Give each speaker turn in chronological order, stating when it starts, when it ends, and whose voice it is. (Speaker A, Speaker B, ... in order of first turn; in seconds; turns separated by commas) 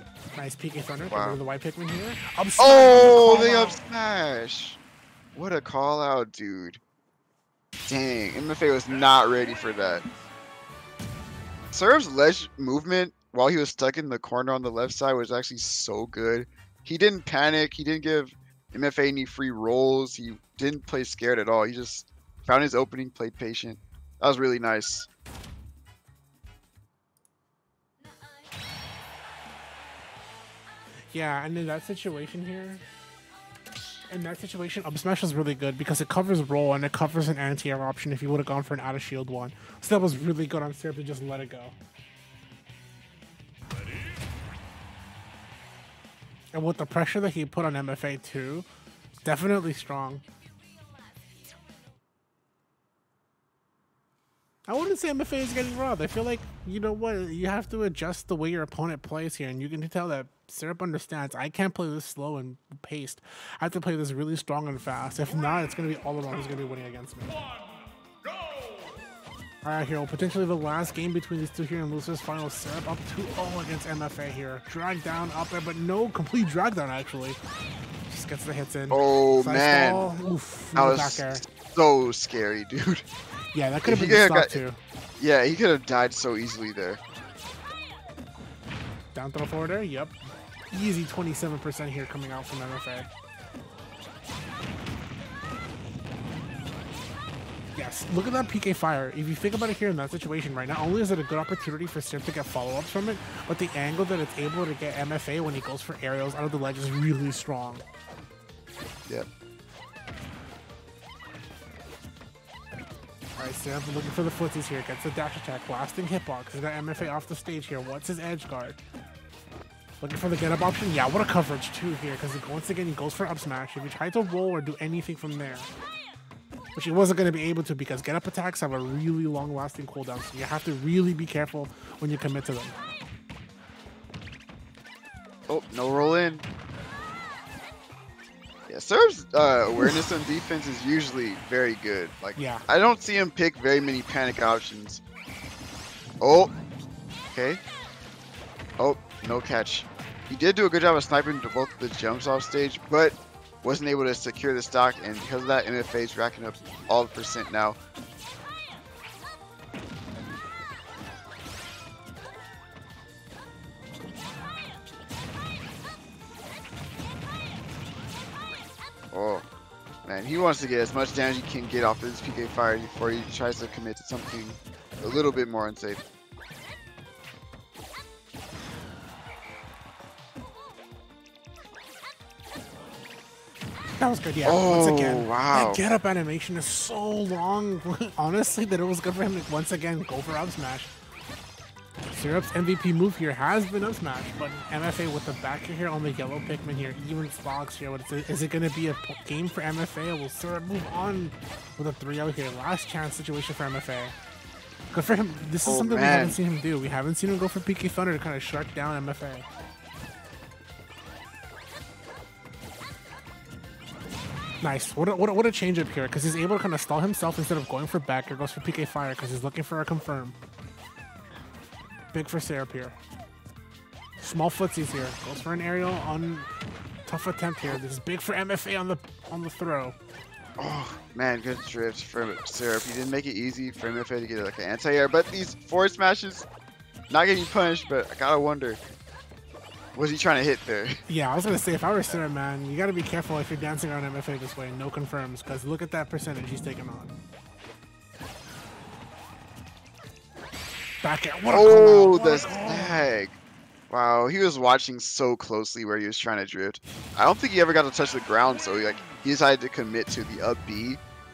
Speaker A: 0.3-3.8, Speaker B: 1.1-1.4, Speaker B: 2.6-4.8, Speaker B: 5.3-6.8, Speaker B: 7.8-10.0, Speaker B: 11.7-25.1, Speaker A: 31.1-32.8, Speaker A: 34.1-41.8, Speaker A: 46.5-48.7, Speaker A: 49.2-50.2, Speaker A: 54.7-67.4, Speaker A: 69.6-77.4, Speaker A: 78.1-81.4, Speaker B: 78.9-80.0, Speaker B: 80.7-83.0, Speaker A: 83.5-84.8, Speaker B: 83.8-84.6, Speaker B: 85.2-87.0, Speaker A: 89.1-90.2, Speaker A: 90.7-93.1, Speaker A: 97.7-107.8, Speaker A: 113.4-118.8, Speaker A: 120.0-125.7, Speaker A: 126.7-132.8, Speaker B: 135.5-136.4, Speaker B: 138.7-145.0, Speaker A: 139.8-140.0, Speaker A: 142.3-142.6, Speaker B: 146.2-146.5, Speaker B: 147.3-147.6, Speaker B: 148.8-157.8, Speaker B: 169.1-169.4, Speaker B: 170.0-176.0, Speaker A: 184.0-190.9, Speaker B: 184.4-185.8, Speaker A: 192.1-204.1, Speaker A: 204.9-209.4, Speaker B: 205.6-206.4, Speaker A: 214.6-220.3, Speaker A: 222.1-222.9, Speaker A: 224.2-226.5, Speaker A: 227.1-229.9, Speaker B: 230.6-236.5, Speaker B: 237.1-238.8, Speaker B: 239.9-241.0, Speaker A: 241.1-247.1, Speaker A: 251.0-253.0, Speaker B: 251.5-253.4, Speaker B: 253.9-261.0